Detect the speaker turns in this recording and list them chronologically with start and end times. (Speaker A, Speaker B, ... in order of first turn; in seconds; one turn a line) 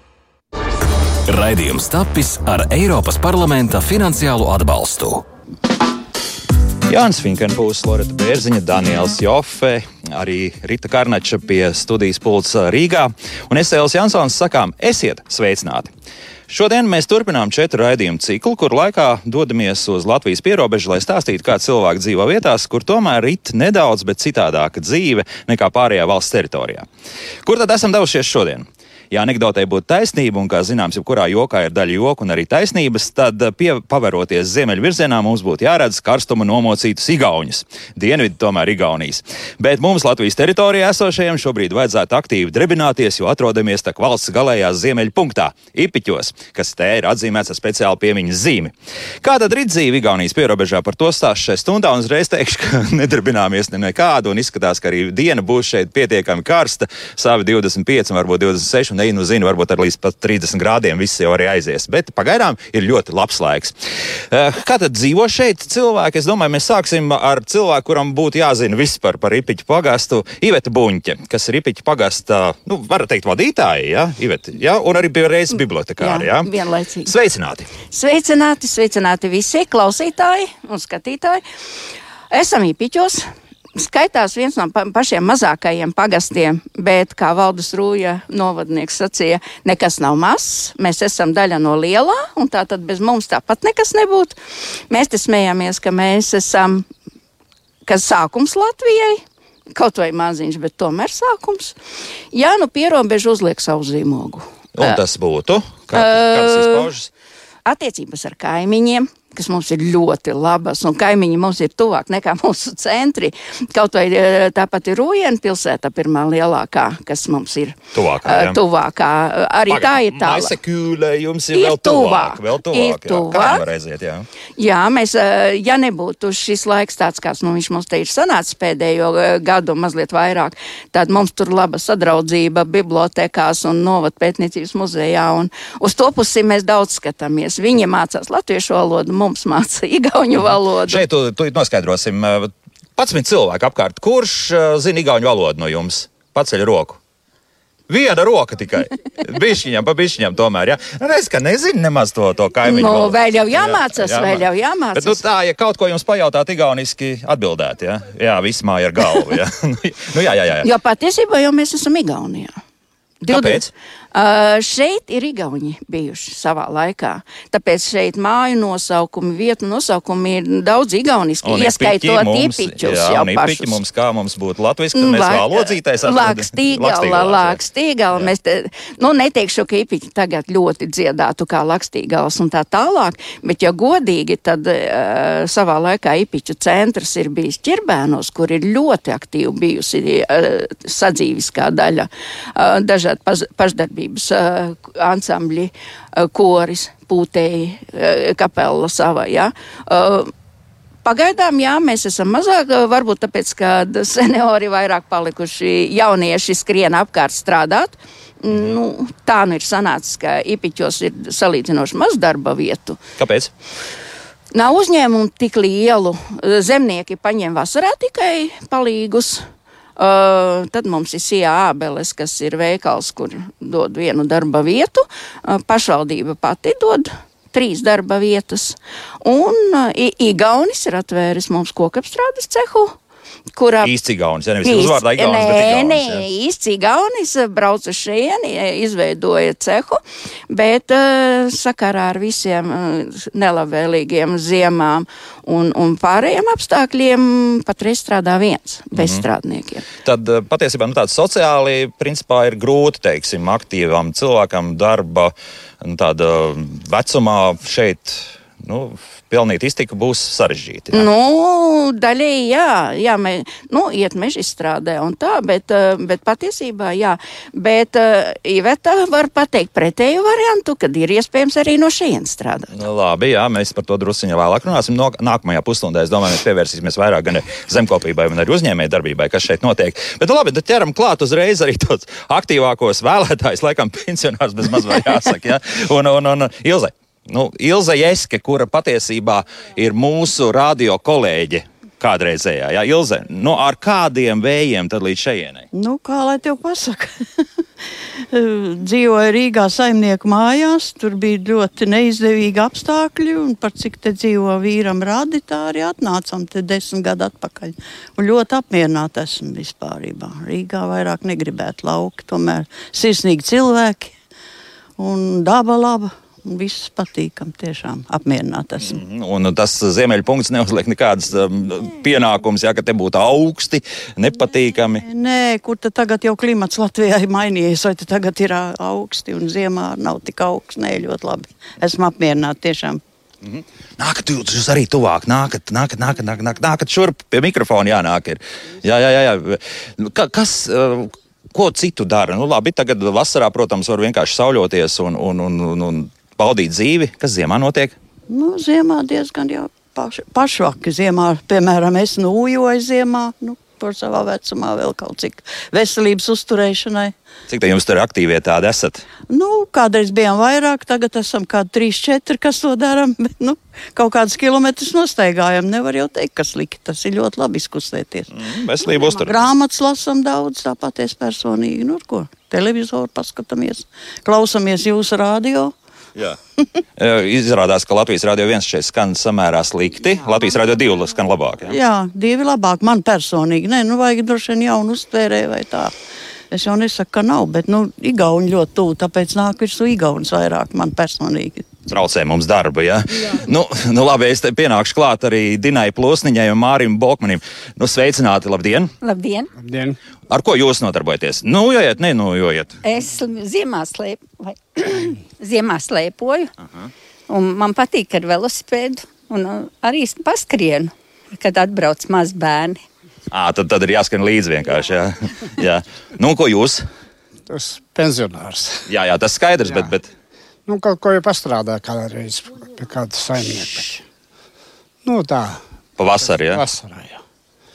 Speaker A: 1.3-5.2
Speaker B: 6.9-15.9
Speaker B: 16.5-26.9
Speaker B: 27.4-76.5
Speaker C: 76.0-77.1
Speaker B: 77.1-77.7
Speaker C: 77.9-81.4
Speaker C: 82.3-94.4
Speaker C: 94.9-96.9
Speaker C: 97.9-99.2
Speaker C: 99.7-101.8
Speaker C: 102.3-105.0
Speaker B: 104.8-107.1
Speaker C: 105.9-106.9
Speaker C: 107.7-120.5
Speaker B: 117.9-118.6
Speaker B: 119.7-124.3
Speaker C: 121.5-123.6
Speaker C: 124.6-141.0
Speaker B: 140.9-147.0
Speaker B: 147.9-160.7
Speaker C: 152.7-155.2
Speaker C: 160.6-162.5
Speaker C: 163.2-173.8
Speaker B: 163.3-163.7
Speaker B: 171.4-177.6
Speaker C: 174.9-200.3
Speaker C: 201.0-213.0
Speaker B: 213.2-213.5
Speaker C: 214.5-219.4
Speaker C: 220.0-232.9
Speaker C: 233.6-233.9
Speaker B: 233.8-236.2
Speaker C: 234.6-249.9
Speaker B: 248.9-249.3
Speaker B: 250.0-261.1
Speaker C: 260.9-272.7
Speaker B: 272.7-295.7
Speaker D: 295.7-297.5
Speaker D: 298.2-314.2
Speaker D: 315.0-319.0
Speaker B: 318.8-325.0
Speaker D: 325.0-333.0
Speaker B: 333.4-347.9
Speaker D: 348.3-357.1
Speaker B: 357.5-359.1
Speaker D: 359.3-368.3
Speaker B: 368.3-369.4
Speaker D: 368.8-375.7
Speaker B: 377.0-381.8
Speaker D: 381.7-385.9
Speaker D: 386.5-391.7
Speaker B: 391.9-398.9
Speaker E: 399.0-399.5
Speaker F: 399.6-400.0
Speaker B: 400.3-402.8
Speaker E: 402.8-406.5
Speaker E: 407.3-412.8
Speaker B: 413.3-416.9
Speaker F: 417.5-418.9
Speaker B: 418.9-420.1
Speaker F: 419.7-419.9
Speaker F: 420.7-424.0
Speaker F: 425.1-425.6
Speaker B: 426.0-426.6
Speaker F: 426.2-427.2